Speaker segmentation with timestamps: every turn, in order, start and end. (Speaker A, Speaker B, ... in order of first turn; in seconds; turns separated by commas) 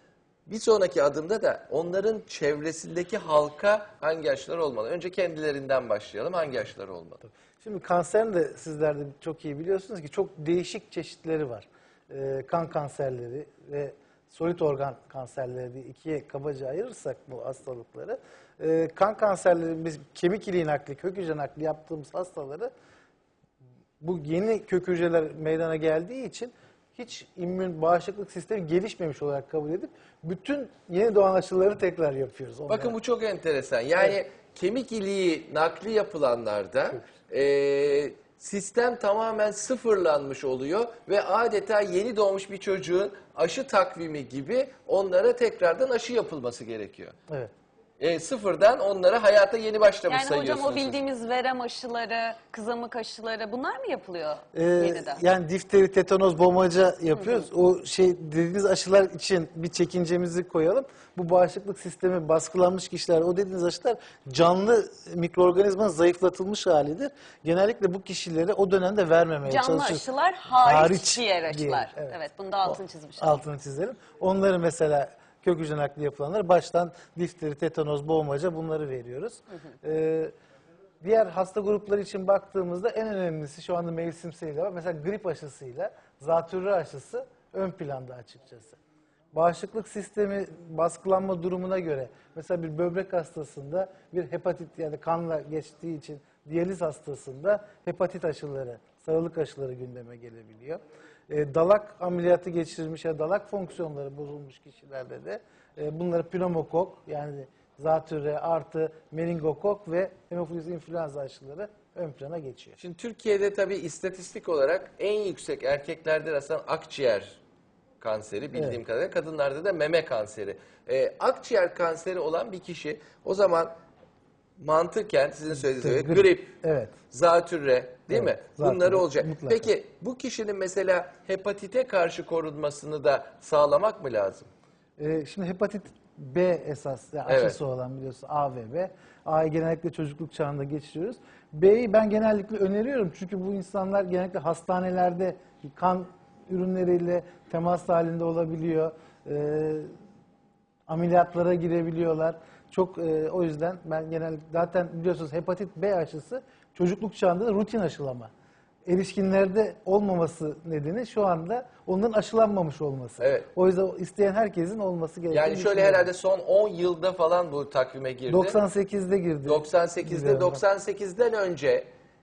Speaker A: 0.5-7.2, Speaker B: 7.2-22.7, Speaker B: 24.0-32.9, Speaker A: 32.7-47.1, Speaker A: 48.0-51.0, Speaker C: 50.1-55.2, Speaker B: 54.5-70.0, Speaker C: 57.1-57.5, Speaker C: 69.4-73.4, Speaker B: 70.6-80.3, Speaker B: 81.0-88.8, Speaker B: 89.3-112.8, Speaker A: 112.8-117.4, Speaker A: 118.0-123.7, Speaker B: 118.5-118.8, Speaker A: 124.6-126.6, Speaker B: 125.8-127.0, Speaker A: 127.1-134.5, Speaker B: 128.1-129.7, Speaker B: 135.0-149.9, Speaker A: 137.2-137.6, Speaker B: 150.9-158.3, Speaker B: 158.9-166.1, Speaker A: 163.2-163.5, Speaker A: 165.3-168.6, Speaker B: 168.3-170.6, Speaker A: 169.4-171.9